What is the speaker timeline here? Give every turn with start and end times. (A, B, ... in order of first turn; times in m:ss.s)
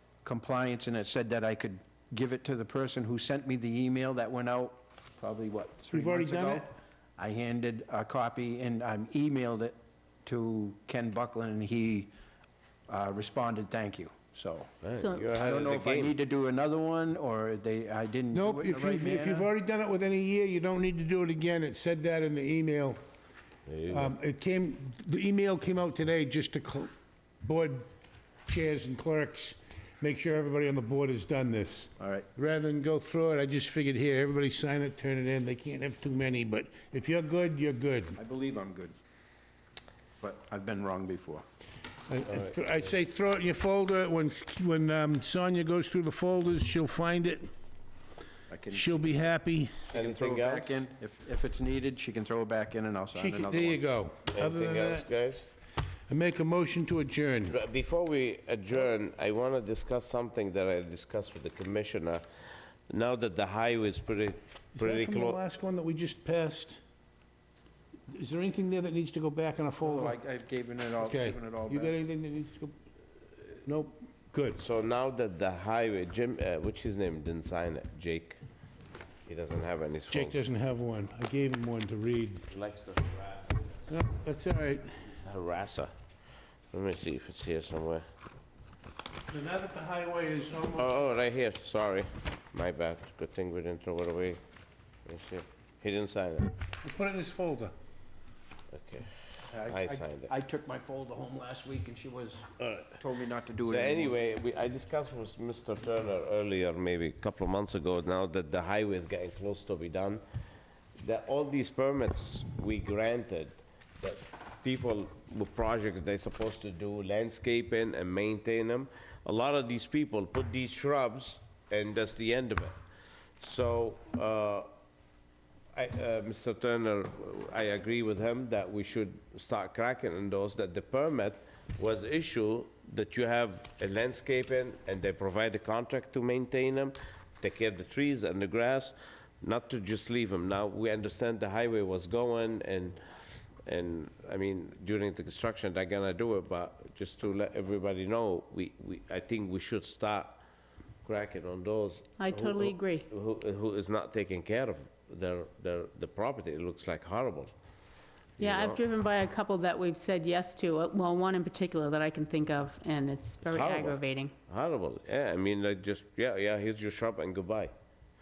0:00.2-0:12.1 A
0:05.9-0:06.7 B
0:12.9-0:14.7 A
0:14.8-0:16.2 C
0:15.0-0:15.3 D
0:15.4-0:19.5 A
0:18.3-0:23.0 B
0:23.7-0:24.1 C
0:23.9-0:27.9 B
0:28.5-0:38.2 B
0:32.0-0:32.3 A
0:38.2-0:39.0 A
0:40.2-0:41.4 A
0:42.1-0:47.5 B
0:48.5-0:49.1 A
0:48.7-0:49.8 B
0:49.9-0:53.8 A
0:49.9-0:50.8 C
0:53.2-0:55.1 B
0:54.3-0:55.5 C
0:56.1-0:57.6 B
0:57.5-1:02.2 C
1:02.9-1:05.4 C
1:04.8-1:06.8 B
1:08.1-1:10.2 B
1:09.8-1:12.0 A
1:11.0-1:12.8 B
1:13.6-1:14.6 B
1:14.6-1:18.4 C
1:19.3-1:20.4 C
1:20.1-1:22.5 B
1:22.5-1:23.8 C
1:23.9-1:25.0 B
1:25.1-1:25.9 C
1:26.7-1:28.1 C
1:29.3-1:31.0 B
1:30.8-1:34.4 C
1:35.1-1:36.5 C
1:36.8-1:37.7 B
1:38.7-1:39.1 C
1:39.5-1:44.2 A
1:39.7-1:40.3 C
1:42.6-1:43.0 C
1:43.6-1:50.2 C
1:51.0-2:02.8 C
2:03.4-2:04.7 C
2:05.8-2:23.0 C
2:23.7-2:30.4 C
2:31.1-2:37.5 C
2:32.2-2:33.0 D
2:38.4-2:38.8 C
2:38.4-2:44.3 D
2:43.4-2:47.7 C